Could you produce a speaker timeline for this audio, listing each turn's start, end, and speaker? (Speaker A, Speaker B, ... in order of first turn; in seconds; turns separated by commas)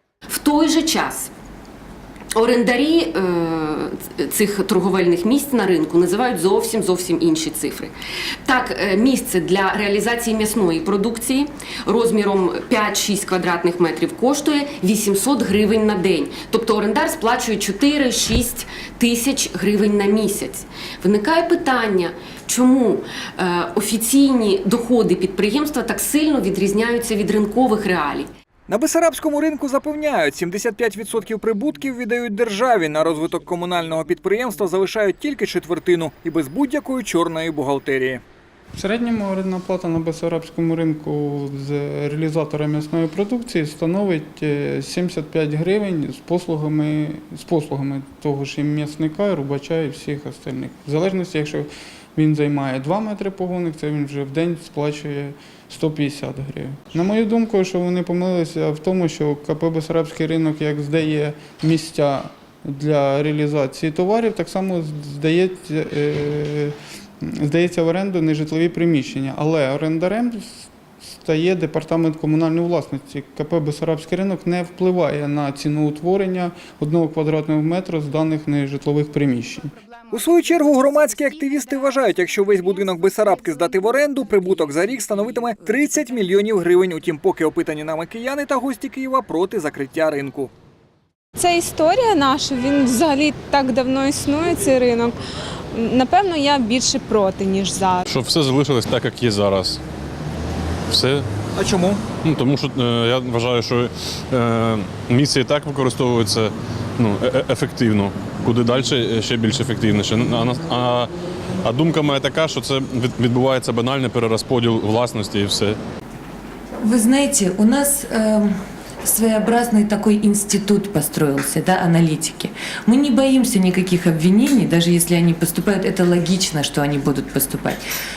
Speaker A: 0.3-1.3, Speaker A: 2.3-7.9, Speaker A: 8.4-28.3, Speaker B: 28.7-38.2, Speaker C: 38.8-79.7, Speaker B: 80.1-90.5, Speaker D: 91.4-95.2, Speaker D: 95.7-98.1, Speaker E: 98.1-99.8, Speaker E: 100.9-101.3, Speaker B: 101.6-102.0, Speaker E: 102.2-115.8, Speaker F: 116.8-127.8